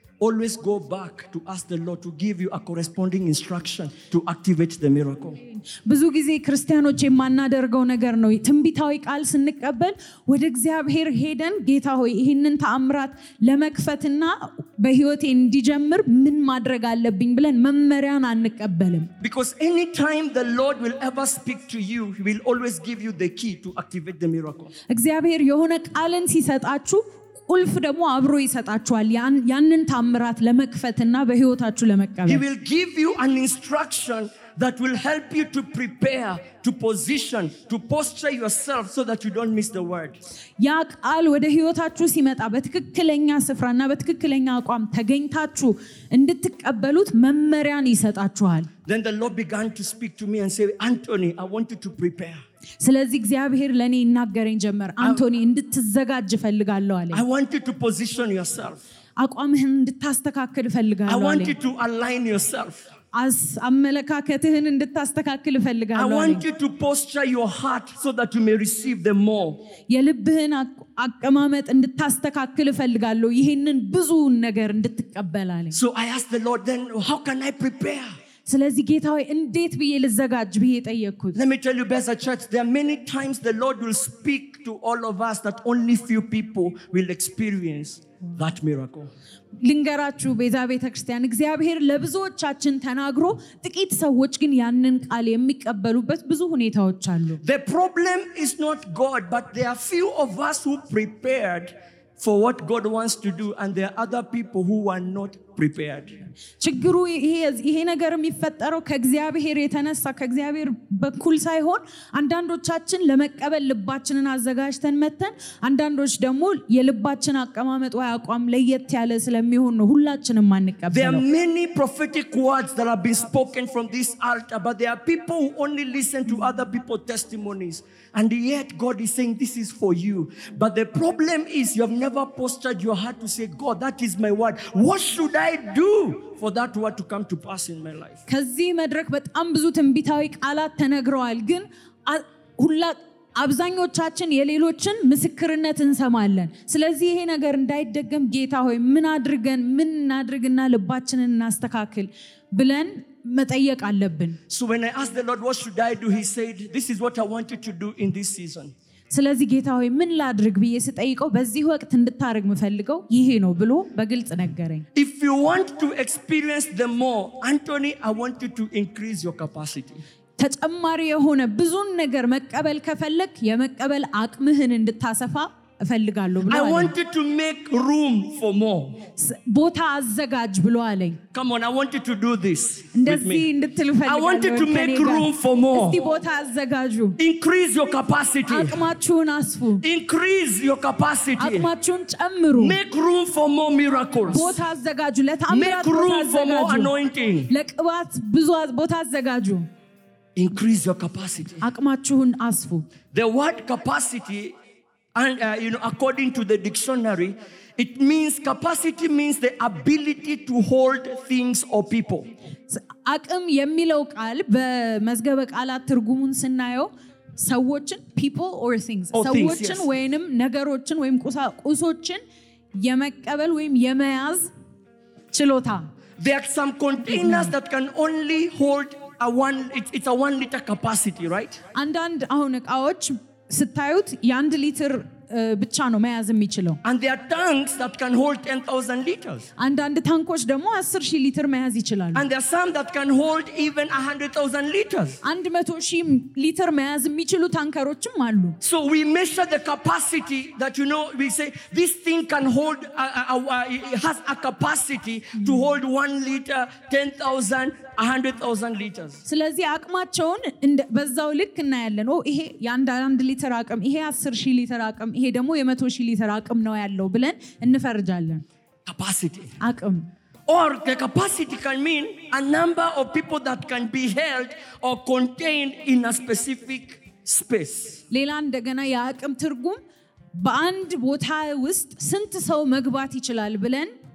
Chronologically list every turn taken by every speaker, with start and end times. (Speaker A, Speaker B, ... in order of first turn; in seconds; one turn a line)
Speaker A: 0.2-5.4
Speaker B: 5.7-19.1
Speaker A: 19.2-24.7
Speaker B: 24.9-32.4
Speaker A: 32.2-40.2
Speaker B: 40.6-48.7
Speaker A: 48.9-52.4
Speaker B: 52.8-57.2
Speaker A: 55.0-55.2
Speaker A: 57.1-58.8
Speaker B: 59.2-61.5
Speaker A: 61.1-62.9
Speaker B: 63.1-66.4
Speaker A: 65.9-69.6
Speaker B: 69.9-75.8
Speaker A: 75.7-78.1
Speaker B: 78.5-81.4
Speaker A: 81.3-89.1
Speaker B: 89.6-97.4
Speaker A: 97.4-106.2
Speaker B: 106.6-121.2
Speaker A: 120.9-138.2
Speaker B: 138.3-154.4
Speaker A: 154.5-158.7
Speaker B: 159.1-164.8
Speaker A: 164.9-170.0
Speaker B: 170.4-176.9
Speaker A: 176.5-179.0
Speaker B: 179.2-181.2
Speaker A: 181.3-183.5
Speaker B: 182.9-187.2
Speaker A: 184.0-186.0
Speaker A: 187.2-188.8
Speaker B: 188.5-189.8
Speaker A: 189.8-191.7
Speaker B: 191.4-192.8
Speaker A: 192.5-194.6
Speaker B: 194.3-196.9
Speaker A: 195.5-197.5
Speaker B: 197.5-199.7
Speaker A: 200.3-201.6
Speaker B: 201.6-202.9
Speaker A: 203.1-204.5
Speaker A: 205.1-212.3
Speaker B: 212.7-222.2
Speaker A: 219.1-219.9
Speaker B: 222.7-224.5
Speaker B: 225.3-225.9
Speaker A: 226.2-231.6
Speaker B: 227.1-227.5
Speaker B: 231.7-236.8
Speaker A: 236.8-239.5
Speaker B: 239.6-242.2
Speaker A: 242.1-245.2
Speaker B: 245.2-248.6
Speaker A: 248.6-259.2
Speaker B: 259.2-268.4
Speaker A: 268.9-269.5
Speaker B: 269.6-270.1
Speaker A: 270.5-278.0
Speaker B: 278.1-279.8
Speaker B: 280.3-283.9